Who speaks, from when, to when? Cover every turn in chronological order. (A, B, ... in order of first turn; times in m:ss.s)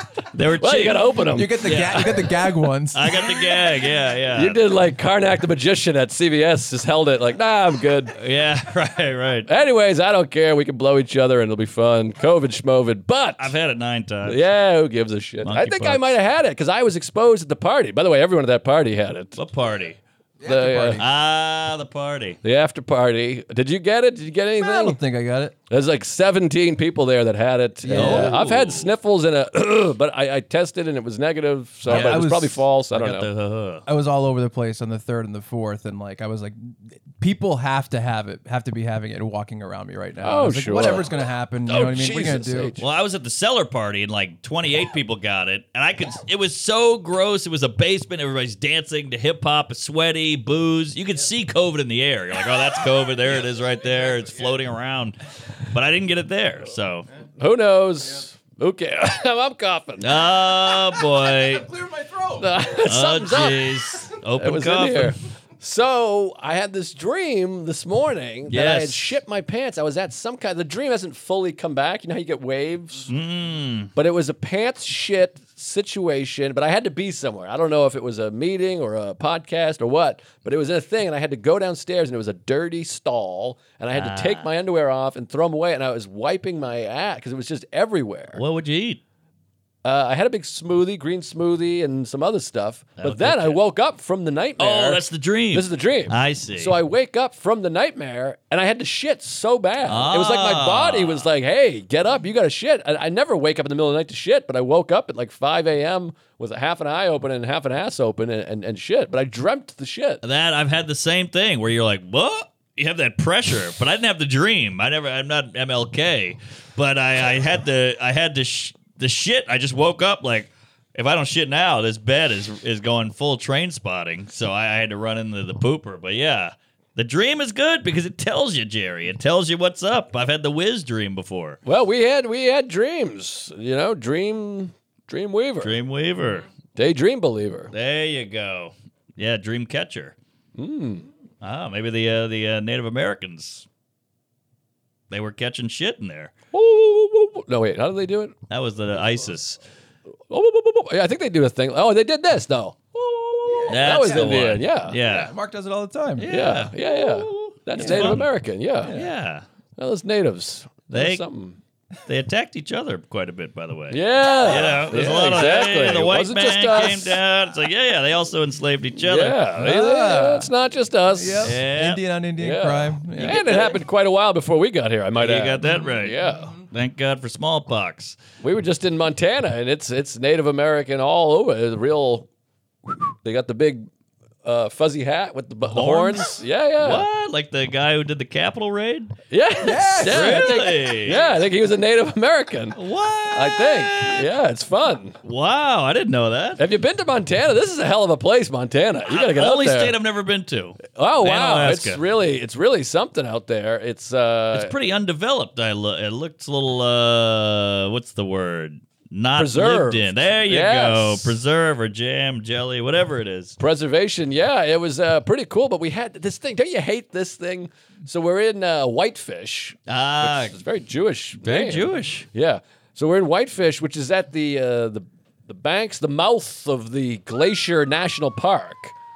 0:00.3-0:01.1 A
0:00.6-0:01.7 B
0:01.3-0:03.1 C
0:01.6-0:04.6 A
0:04.3-0:08.2 B
0:08.2-0:09.5 A
0:09.5-0:13.5 B
0:13.4-0:14.5 A
0:14.2-0:19.4 B
0:15.4-0:16.1 A
0:19.4-0:20.0 A
0:20.4-0:21.0 C
0:20.4-0:21.0 B
0:21.0-0:22.4 A
0:22.4-0:25.0 B
0:24.6-0:25.6 C
0:25.7-0:33.3 B
0:27.8-0:28.4 C
0:27.9-0:28.9 A
0:31.9-0:32.2 A
0:31.9-0:32.6 C
0:32.9-0:33.8 A
0:33.9-0:42.7 C
0:40.2-0:41.1 B
0:41.7-0:42.8 B
0:42.8-0:57.1 A
0:57.4-1:00.1 B
1:00.0-1:01.7 A
1:01.6-1:02.4 C
1:02.4-1:03.7 B
1:02.8-1:05.2 A
1:04.4-1:13.1 B
1:08.5-1:09.1 A
1:13.1-1:13.9 A
1:14.0-1:28.4 B
1:23.9-1:24.5 A
1:28.4-1:29.0 A
1:29.8-1:50.2 B
1:33.0-1:33.6 A
1:34.6-1:36.8 A
1:39.9-1:41.3 A
1:50.2-2:11.6 A
2:11.6-2:15.8 B
2:15.6-2:16.5 A
2:16.8-2:17.7 B
2:17.7-2:20.2 A
2:20.6-2:21.1 B
2:21.4-2:23.7 A
2:25.1-2:26.3 A
2:26.5-2:28.4 B
2:28.5-2:29.6 A
2:30.3-2:35.0 B
2:33.5-2:36.3 C
2:33.7-2:35.3 A
2:36.2-2:38.3 A
2:36.3-2:38.9 B
2:37.8-2:38.2 C
2:38.8-2:39.1 C
2:38.9-2:39.4 A
2:39.8-2:41.6 B
2:40.9-2:41.2 A
2:42.1-2:49.4 A
2:43.9-2:47.2 B
2:49.0-2:51.6 B
2:49.5-2:50.5 C
2:51.2-2:53.8 C
2:51.4-2:52.0 A
2:52.4-2:56.5 B
2:53.2-2:53.8 A
2:55.2-2:58.2 A
2:55.6-2:56.6 C
2:58.4-3:02.3 B
3:02.9-3:03.9 B
3:04.4-3:07.1 B
3:05.7-3:09.2 A
3:09.3-3:12.8 B
3:09.6-3:10.6 C
3:10.0-3:11.3 A
3:12.8-3:14.3 A
3:13.3-3:15.2 B
3:15.2-3:16.6 A
3:16.6-3:20.0 B
3:19.1-3:22.0 A
3:20.9-3:24.7 B
3:24.5-3:33.6 A
3:29.4-3:31.4 B
3:33.6-3:48.9 B
3:39.9-3:40.6 A
3:41.4-3:42.3 A